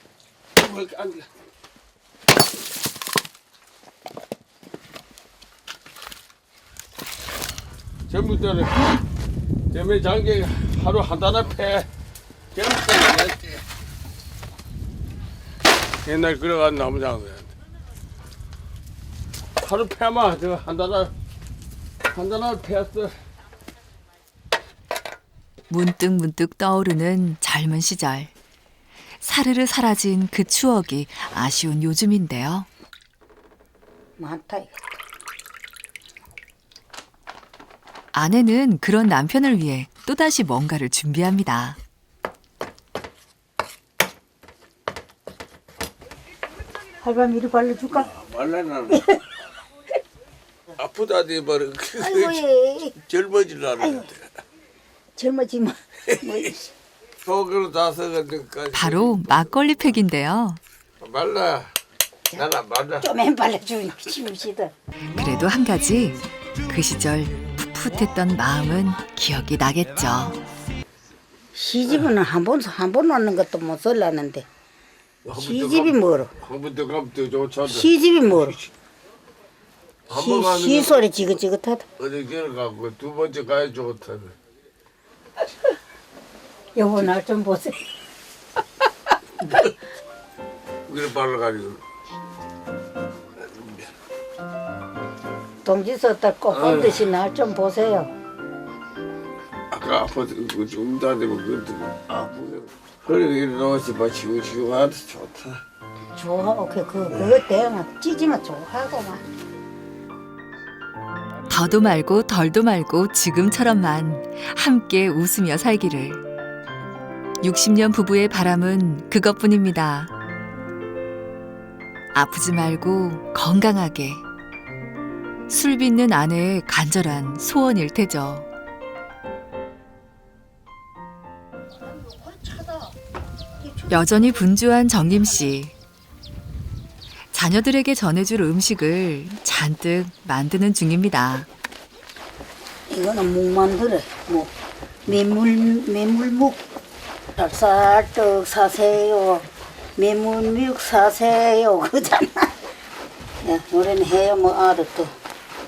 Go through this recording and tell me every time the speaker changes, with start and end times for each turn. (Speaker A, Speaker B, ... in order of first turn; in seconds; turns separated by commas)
Speaker A: 0.6-1.3, Speaker A: 8.1-8.8, Speaker A: 9.7-11.9, Speaker A: 12.5-13.6, Speaker A: 16.0-17.5, Speaker A: 19.6-21.1, Speaker A: 22.1-23.1, Speaker B: 25.7-28.3, Speaker B: 29.2-32.7, Speaker C: 34.2-34.9, Speaker B: 38.1-41.8, Speaker C: 47.0-48.1, Speaker A: 47.9-49.0, Speaker C: 48.9-49.2, Speaker A: 50.8-52.4, Speaker C: 52.0-53.0, Speaker A: 53.0-54.3, Speaker C: 53.8-54.1, Speaker C: 55.1-56.7, Speaker A: 57.2-59.4, Speaker B: 58.7-60.6, Speaker A: 61.0-61.7, Speaker A: 62.3-63.1, Speaker C: 63.0-64.7, Speaker B: 65.1-70.4, Speaker C: 71.5-74.5, Speaker A: 75.2-77.9, Speaker C: 75.3-76.3, Speaker C: 77.6-78.6, Speaker A: 80.1-81.1, Speaker C: 80.1-81.8, Speaker A: 82.0-84.3, Speaker C: 86.7-87.8, Speaker A: 90.9-91.8, Speaker A: 93.4-93.9, Speaker C: 95.6-98.1, Speaker A: 96.5-97.0, Speaker A: 99.7-105.6, Speaker C: 106.2-109.2, Speaker B: 111.5-116.2, Speaker B: 117.4-120.1, Speaker B: 122.1-124.2, Speaker B: 125.5-128.5, Speaker C: 131.8-132.9, Speaker C: 133.6-134.5, Speaker B: 133.9-135.7, Speaker B: 137.3-141.5, Speaker C: 142.9-144.5, Speaker C: 145.1-146.6, Speaker C: 147.4-152.5, Speaker C: 153.4-155.1